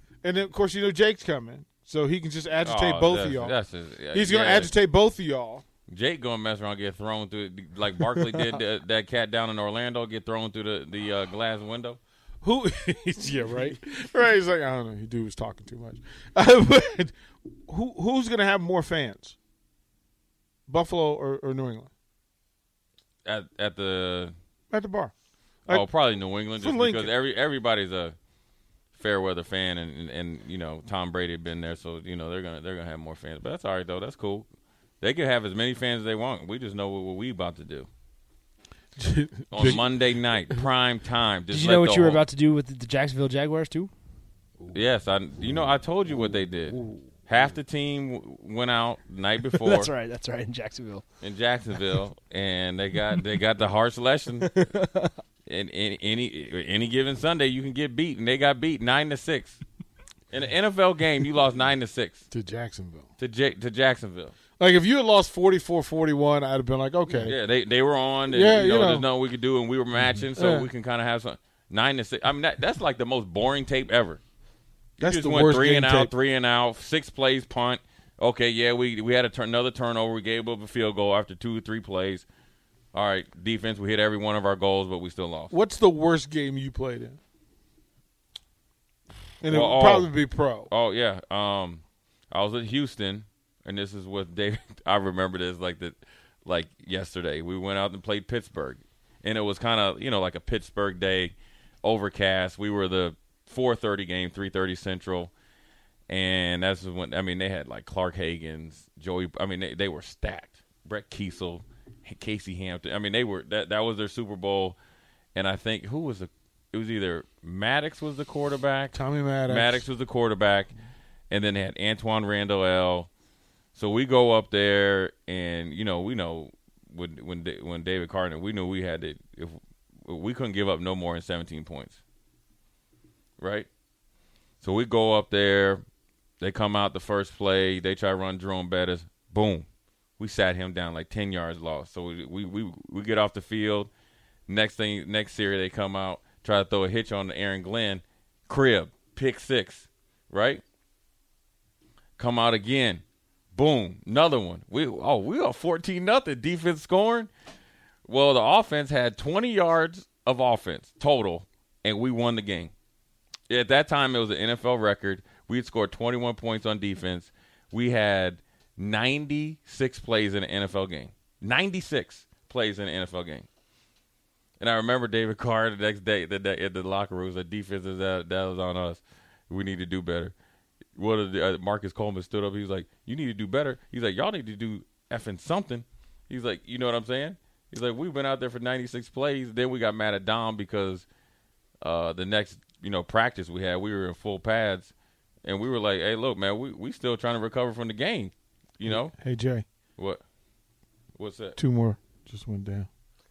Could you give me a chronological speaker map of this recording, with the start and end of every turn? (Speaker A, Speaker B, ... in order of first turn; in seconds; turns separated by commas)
Speaker A: 0.2-3.6, Speaker B: 2.6-4.7, Speaker A: 4.1-5.6, Speaker B: 5.9-12.0, Speaker A: 12.4-17.1, Speaker A: 17.7-19.4, Speaker A: 20.7-21.9, Speaker B: 23.2-24.3, Speaker A: 24.7-25.1, Speaker B: 25.7-28.1, Speaker A: 26.4-27.1, Speaker B: 28.9-34.5, Speaker B: 35.0-37.9, Speaker A: 39.0-39.9, Speaker B: 39.5-42.2, Speaker C: 41.5-43.9, Speaker B: 44.7-49.9, Speaker C: 49.5-51.0, Speaker B: 51.2-54.5, Speaker C: 54.4-55.1, Speaker B: 55.5-59.6, Speaker B: 60.3-62.3, Speaker A: 62.3-63.1, Speaker B: 63.2-64.3, Speaker A: 64.6-67.4, Speaker B: 67.1-74.2, Speaker A: 68.3-69.1, Speaker A: 70.3-70.7, Speaker B: 75.0-82.2, Speaker A: 75.0-76.1, Speaker B: 82.9-85.5, Speaker A: 85.5-87.2, Speaker A: 89.4-90.7, Speaker B: 89.4-90.2, Speaker B: 90.7-105.3, Speaker B: 106.1-114.8, Speaker B: 115.3-120.7, Speaker A: 118.9-119.9, Speaker B: 121.3-123.1, Speaker B: 123.7-132.0, Speaker B: 133.4-133.7, Speaker B: 134.6-135.8, Speaker B: 136.4-139.7, Speaker B: 140.2-143.9, Speaker B: 144.5-150.6, Speaker B: 152.2-153.0, Speaker B: 153.5-157.3, Speaker B: 158.1-162.7, Speaker B: 163.5-173.5, Speaker B: 174.6-180.3, Speaker B: 180.9-191.1, Speaker B: 191.8-194.9, Speaker B: 195.4-199.1, Speaker A: 198.9-199.6, Speaker B: 200.0-200.2, Speaker B: 201.2-201.6, Speaker A: 201.6-202.9